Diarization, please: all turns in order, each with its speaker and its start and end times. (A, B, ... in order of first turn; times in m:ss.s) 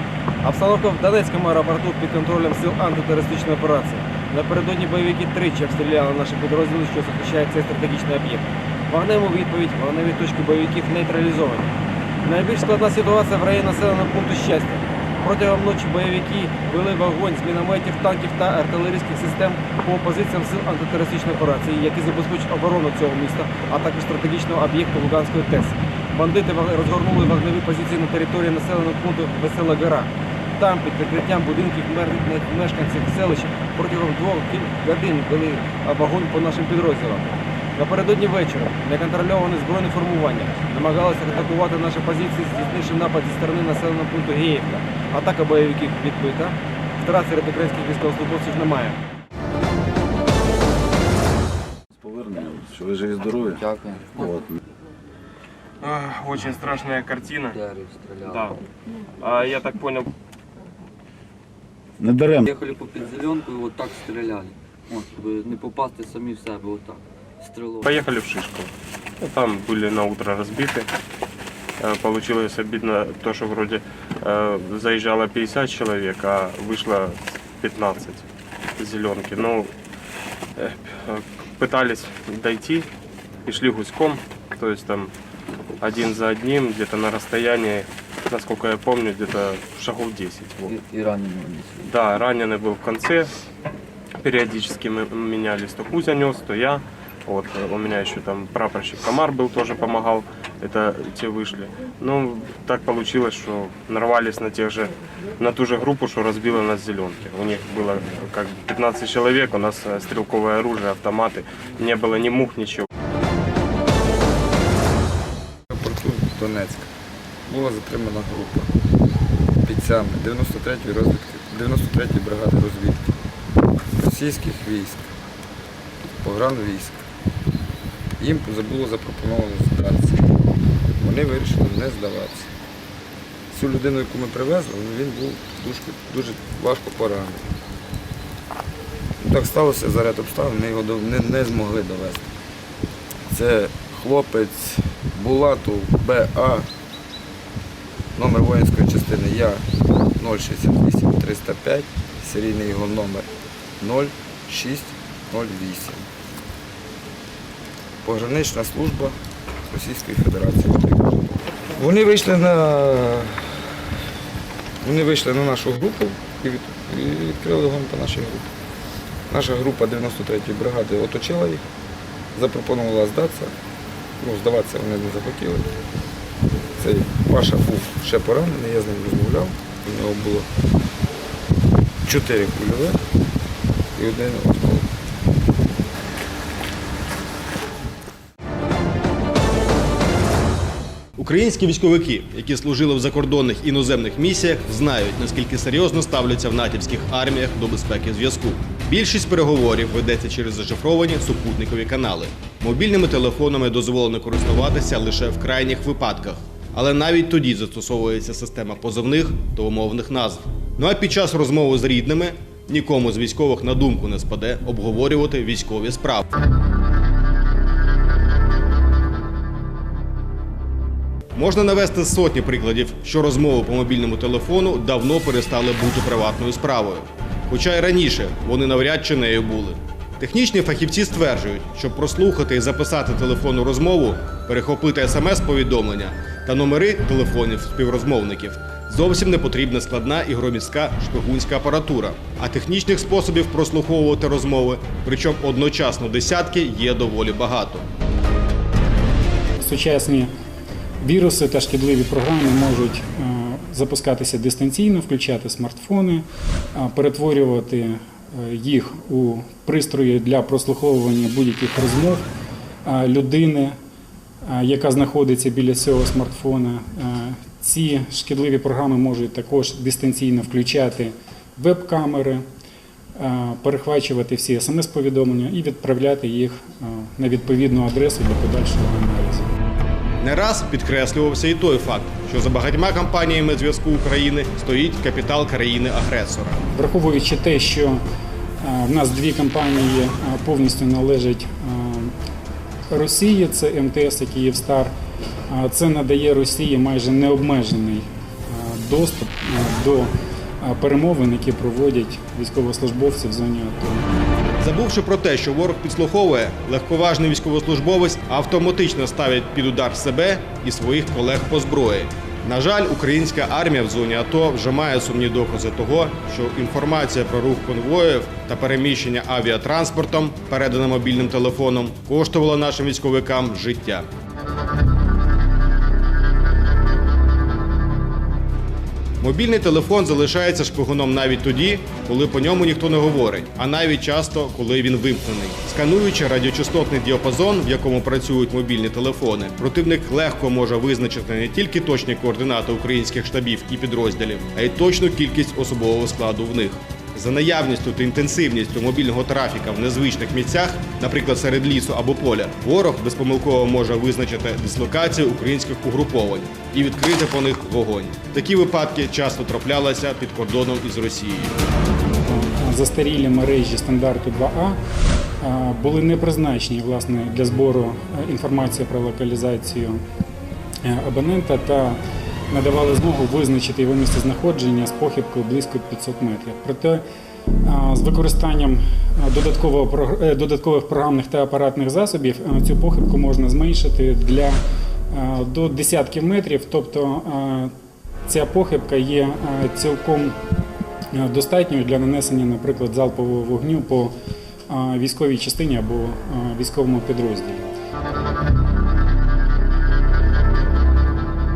0:00.4-0:49.0 A
0:52.0-0:53.6 B
0:53.6-0:54.3 C
0:55.8-0:57.6 D
0:57.6-0:58.5 C
0:58.3-0:58.6 D
0:59.2-1:00.1 D
1:02.0-1:02.4 B
1:02.4-1:07.9 C
1:07.8-1:08.7 D
1:09.2-1:10.9 D
1:11.8-1:18.2 D
1:18.8-1:19.7 D
1:20.6-1:22.9 D
1:23.4-1:25.1 D
1:25.8-1:30.7 D
1:30.6-1:31.8 C
1:31.8-1:33.3 D
1:34.2-1:52.8 D
1:55.7-1:56.9 E
1:57.5-1:58.7 E
1:59.6-2:03.1 E
2:03.9-2:05.1 E
2:06.0-2:07.1 E
2:08.2-2:10.3 E
2:11.0-2:12.5 E
2:13.5-2:17.4 E
2:19.2-2:22.3 E
2:23.3-2:26.7 E
2:28.1-2:36.1 E
2:38.0-2:43.6 E
2:44.8-2:48.5 E
2:49.3-2:51.6 E
2:52.3-2:53.5 E
2:54.2-2:55.7 E
2:56.8-3:00.5 E
3:02.0-3:03.0 E
3:04.0-3:04.9 E
3:11.2-3:36.2 F
3:41.4-4:07.8 F
4:09.6-4:10.3 G
4:11.0-4:22.2 G
4:22.8-4:23.7 G
4:24.5-4:32.4 G
4:33.2-4:39.4 G
4:40.2-4:46.6 F
4:46.7-4:48.0 G
4:48.6-4:52.1 G
4:52.9-4:54.9 G
4:55.5-5:04.0 G
5:04.6-5:24.1 F
5:29.2-6:01.5 F
6:02.2-6:04.8 G
6:05.4-6:10.0 G
6:10.8-6:17.0 G
6:17.6-6:24.6 G
6:25.1-6:27.7 G
6:28.2-6:30.3 G
6:31.1-6:34.1 G
6:34.7-6:37.7 G